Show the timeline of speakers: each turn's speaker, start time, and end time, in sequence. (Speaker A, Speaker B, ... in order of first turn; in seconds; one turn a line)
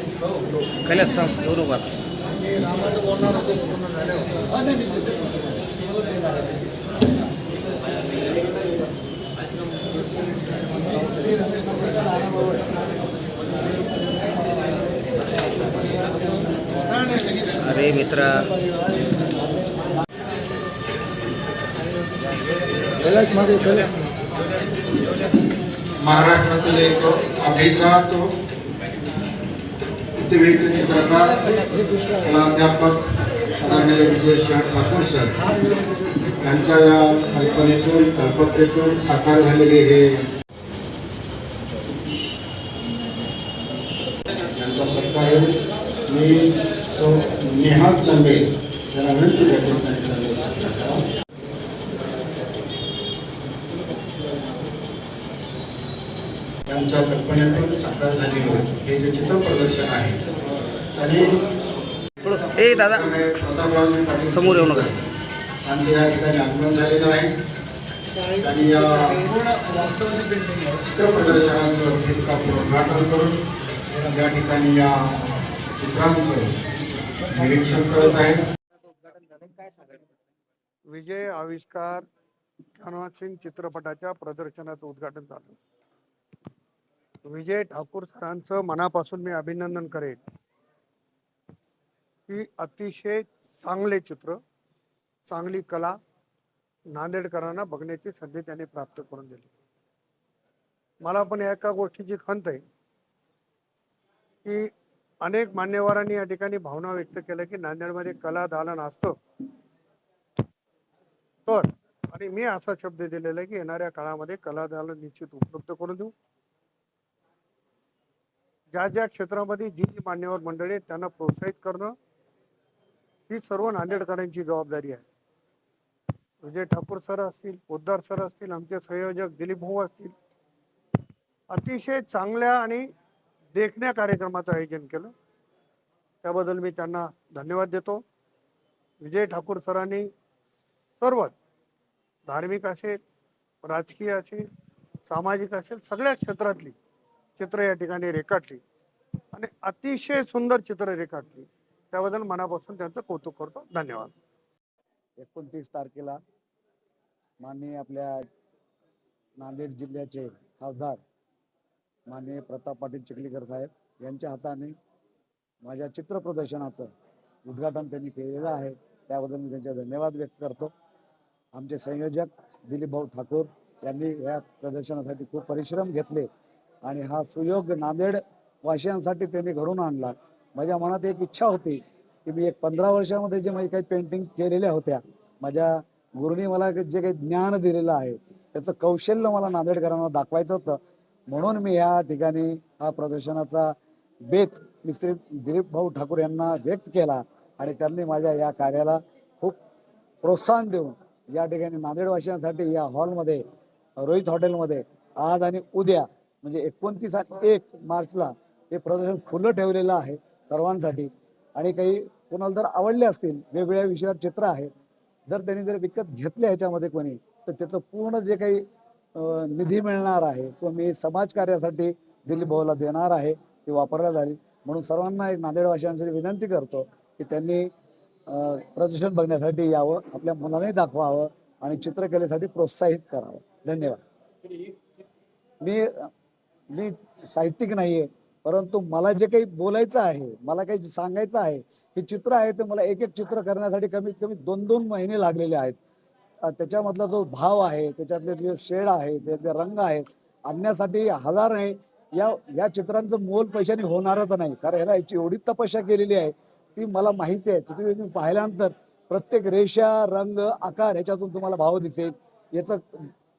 Speaker A: 0.8-1.9
Speaker B: 2.3-4.5
Speaker C: 6.0-6.5
Speaker C: 11.0-12.7
Speaker A: 17.6-18.5
Speaker C: 18.6-19.5
Speaker D: 26.0-28.3
Speaker D: 30.2-31.4
Speaker D: 32.1-35.4
Speaker D: 36.4-40.2
Speaker D: 44.6-45.5
Speaker D: 46.1-51.0
Speaker D: 56.7-60.2
Speaker D: 60.9-61.4
Speaker A: 62.2-63.0
Speaker D: 62.3-65.0
Speaker A: 64.4-64.8
Speaker D: 65.6-67.3
Speaker D: 68.4-69.4
Speaker C: 69.5-70.7
Speaker D: 70.8-73.4
Speaker D: 74.0-75.2
Speaker D: 75.8-76.5
Speaker D: 77.3-78.4
Speaker B: 80.9-82.1
Speaker B: 82.8-85.6
Speaker B: 87.3-90.2
Speaker B: 92.3-94.4
Speaker B: 95.3-96.0
Speaker B: 96.9-99.5
Speaker B: 101.0-102.6
Speaker B: 104.5-104.7
Speaker B: 105.2-109.2
Speaker B: 111.5-116.1
Speaker B: 118.7-121.9
Speaker B: 123.3-125.0
Speaker B: 126.4-130.1
Speaker B: 131.5-132.8
Speaker B: 133.6-135.1
Speaker B: 136.2-138.0
Speaker B: 139.0-140.1
Speaker B: 141.0-141.3
Speaker B: 142.3-143.0
Speaker B: 143.6-144.4
Speaker B: 145.1-146.8
Speaker B: 147.4-148.6
Speaker B: 149.3-154.1
Speaker C: 155.2-156.2
Speaker C: 157.4-158.3
Speaker C: 159.4-161.0
Speaker C: 162.1-164.8
Speaker C: 165.6-166.9
Speaker C: 167.5-170.7
Speaker C: 171.5-176.3
Speaker C: 176.8-193.8
Speaker C: 194.3-199.6
Speaker C: 200.2-203.4
Speaker C: 204.0-214.7
Speaker C: 215.3-227.7
Speaker C: 228.3-234.0
Speaker C: 235.6-236.1
Speaker C: 236.7-245.8
Speaker C: 246.4-263.1